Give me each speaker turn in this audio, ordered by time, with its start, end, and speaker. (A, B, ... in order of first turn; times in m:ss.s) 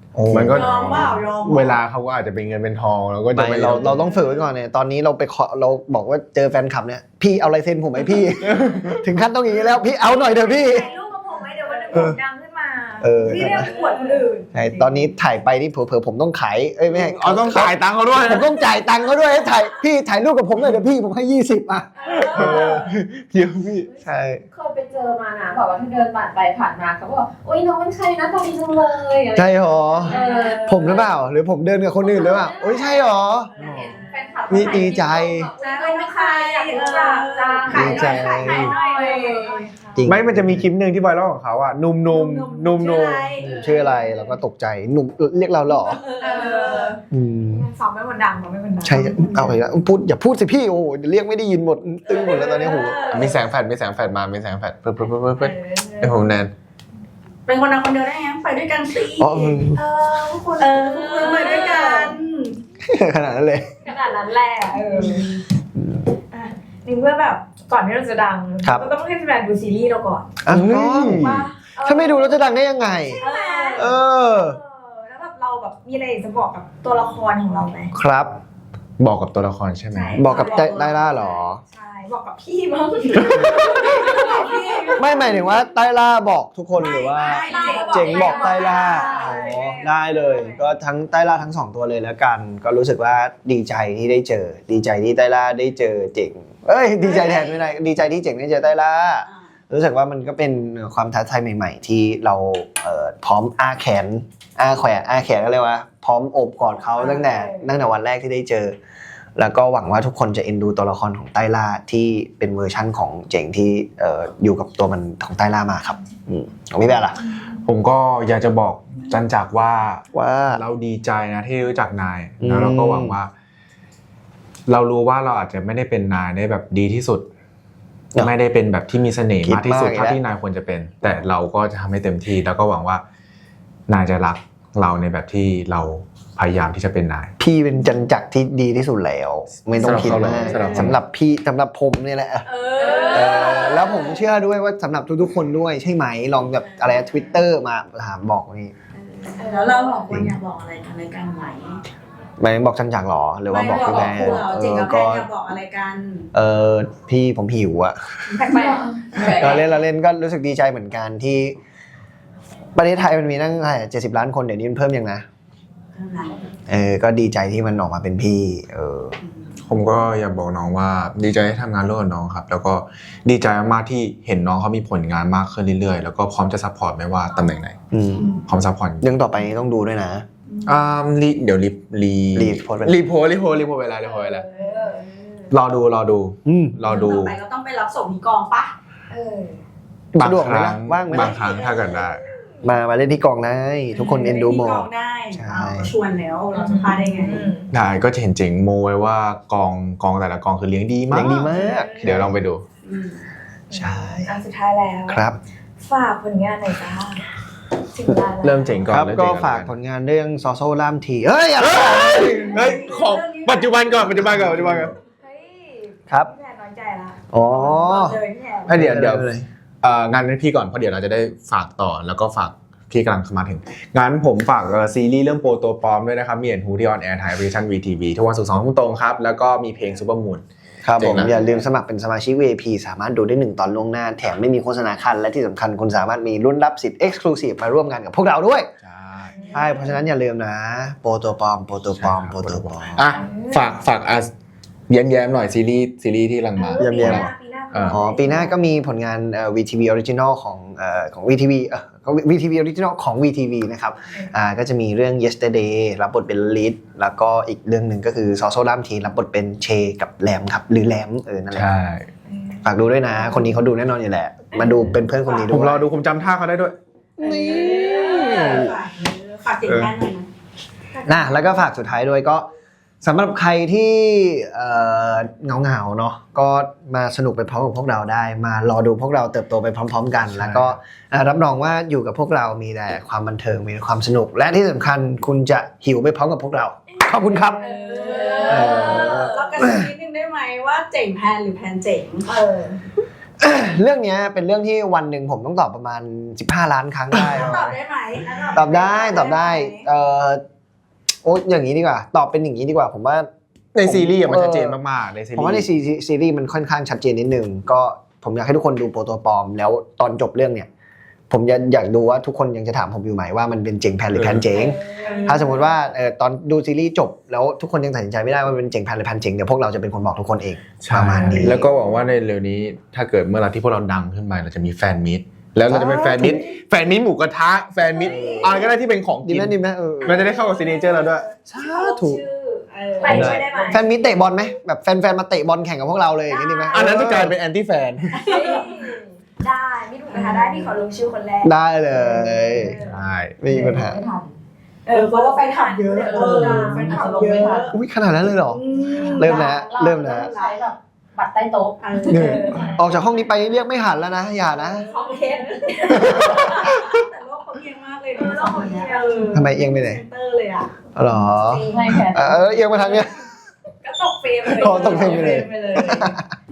0:00.2-0:01.1 A
0:00.3-0:04.0 B
0:00.5-0:01.8 C
0:03.3-0:10.9 A
0:03.8-0:04.4 D
0:08.4-0:09.0 B
0:10.1-0:14.5 D
0:13.0-0:13.7 A
0:13.7-0:14.8 C
0:14.5-0:22.6 A
0:16.9-0:18.5 B
0:22.0-0:22.9 D
0:22.0-0:22.9 C
0:22.1-0:23.9 B
0:24.0-0:24.4 A
0:24.5-0:31.1 E
0:29.3-0:33.5 A
0:30.1-0:31.0 C
0:30.1-0:30.6 D
0:32.0-0:38.5 E
0:33.6-0:34.9 C
0:33.6-0:33.9 B
0:34.5-0:35.5 A
0:35.6-0:39.7 C
0:36.7-0:40.0 D
0:37.7-0:38.8 A
0:40.0-0:40.7 A
0:40.1-0:43.4 B
0:42.1-0:43.8 C
0:43.4-0:46.0 A
0:43.4-0:44.2 D
0:45.9-0:47.0 C
0:46.2-0:49.5 D
0:47.1-0:47.7 A
0:48.8-0:53.0 A
0:48.9-0:49.6 C
0:52.1-0:53.3 C
0:52.1-0:53.4 D
0:53.1-0:56.5 B
0:55.4-0:56.4 D
0:57.5-0:59.7 C
0:59.2-0:59.8 A
0:59.8-1:02.2 D
1:00.6-1:02.6 C
1:02.8-1:03.7 A
1:03.8-1:05.3 D
1:04.9-1:05.4 C
1:06.3-1:10.4 D
1:08.6-1:08.9 A
1:10.4-1:13.2 A
1:10.5-1:11.5 B
1:11.1-1:12.4 D
1:13.1-1:17.9 D
1:13.2-1:14.0 C
1:13.8-1:14.6 A
1:17.9-1:18.4 A
1:19.0-1:20.2 B
1:19.9-1:21.3 C
1:20.2-1:21.6 A
1:20.3-1:25.6 D
1:23.1-1:25.4 C
1:25.0-1:48.8 A
1:26.8-1:29.4 C
1:26.8-1:30.6 D
1:37.1-1:37.5 C
1:46.9-1:47.6 D
1:49.4-1:57.2 A
1:57.6-2:03.3 B
2:00.1-2:00.6 A
2:02.4-2:03.2 A
2:04.7-2:07.3 B
2:08.2-2:13.0 B
2:09.4-2:10.2 A
2:13.9-2:17.3 B
2:17.4-2:22.5 A
2:19.8-2:21.0 B
2:20.2-2:21.0 D
2:20.5-2:20.8 C
2:22.5-2:24.2 D
2:22.6-2:24.0 C
2:23.1-2:28.7 A
2:26.6-2:27.0 C
2:28.9-2:31.8 C
2:29.4-2:30.2 D
2:30.1-2:30.4 A
2:32.4-2:35.3 A
2:33.5-2:36.3 C
2:33.7-2:34.3 E
2:36.3-2:38.4 A
2:38.3-2:39.5 C
2:38.5-2:39.6 E
2:38.5-2:39.0 D
2:39.2-2:41.6 A
2:42.8-2:45.2 A
2:46.0-2:46.5 C
2:46.7-2:49.2 A
2:49.2-2:49.6 C
2:49.6-2:57.8 B
2:57.9-2:58.3 A
2:58.2-2:58.4 C
2:58.5-2:59.0 B
2:59.0-3:00.2 A
3:00.5-3:00.8 C
3:00.7-3:04.5 B
3:02.4-3:03.0 A
3:04.0-3:05.4 D
3:04.6-3:05.1 C
3:05.5-3:07.4 B
3:06.4-3:06.8 A
3:06.8-3:08.7 C
3:09.1-3:09.6 D
3:10.1-3:11.6 A
3:10.2-3:12.2 B
3:11.1-3:11.6 C
3:11.6-3:12.2 D
3:12.6-3:15.9 A
3:13.9-3:17.5 C
3:16.5-3:17.7 D
3:17.7-3:22.6 B
3:21.1-3:22.4 A
3:21.2-3:22.2 D
3:22.8-3:23.3 C
3:23.7-3:24.4 A
3:23.7-3:25.2 D
3:25.1-3:25.4 A
3:25.8-3:27.3 D
3:27.9-3:28.8 D
3:28.4-3:29.7 B
3:28.9-3:32.7 A
3:31.6-3:34.9 B
3:32.4-3:34.1 C
3:34.0-3:34.9 A
3:35.2-3:38.7 D
3:37.3-3:39.5 A
3:38.7-3:39.3 B
3:39.8-3:50.4 B
3:50.8-3:58.7 A
3:51.0-3:51.4 B
3:58.8-3:59.6 B
3:59.3-4:00.0 D
3:59.5-4:03.1 A
4:02.0-4:04.3 B
4:03.1-4:03.8 D
4:04.9-4:08.0 B
4:06.6-4:08.6 D
4:06.8-4:07.3 A
4:07.9-4:21.7 A
4:21.5-4:22.1 B
4:22.3-4:23.4 D
4:22.6-4:25.8 A
4:25.2-4:25.7 C
4:25.5-4:26.8 B
4:27.2-4:28.7 A
4:27.2-4:30.3 C
4:27.3-4:28.7 D
4:30.9-4:31.7 D
4:31.1-4:32.5 A
4:33.0-4:47.6 A
4:40.2-4:40.8 B
4:46.9-4:49.4 D
4:47.6-4:52.3 C
4:48.5-4:49.9 A
4:52.3-4:52.8 D
4:53.4-4:57.8 A
4:57.3-4:59.9 C
4:58.5-5:00.4 A
5:01.2-5:03.3 A
5:03.7-5:05.7 B
5:03.8-5:04.8 A
5:05.4-5:10.7 A
5:11.3-5:21.7 A
5:14.1-5:14.5 B
5:14.5-5:15.7 D
5:15.0-5:15.6 C
5:20.8-5:31.3 B
5:25.7-5:26.5 A
5:26.1-5:26.3 D
5:27.9-5:28.6 D
5:28.1-5:28.7 A
5:29.2-5:30.3 A
5:30.1-5:34.3 D
5:31.5-5:32.2 A
5:32.7-5:33.8 C
5:33.1-5:37.3 A
5:33.1-5:33.4 B
5:36.3-5:37.1 D
5:36.7-5:38.3 B
5:38.1-5:38.8 C
5:38.2-5:43.0 D
5:40.1-5:40.8 C
5:41.4-5:42.8 A
5:42.8-5:43.4 B
5:43.4-5:44.0 A
5:43.5-5:44.3 E
5:44.9-5:47.7 D
5:44.9-5:47.7 C
5:46.1-5:47.7 E
5:47.7-5:48.6 A
5:48.5-5:50.6 C
5:48.8-5:49.3 D
5:49.0-5:52.8 E
5:49.2-5:50.3 A
5:51.8-5:52.8 C
5:52.1-5:54.9 A
5:52.1-5:53.0 D
5:54.7-5:56.9 D
5:54.8-6:00.7 C
5:55.9-5:56.7 A
5:58.1-5:59.5 D
5:59.3-6:00.0 A
6:01.0-6:03.1 A
6:01.2-6:02.0 D
6:01.6-6:02.6 E
6:02.7-6:03.1 D
6:03.8-6:06.2 D
6:04.5-6:06.3 A
6:04.6-6:06.1 C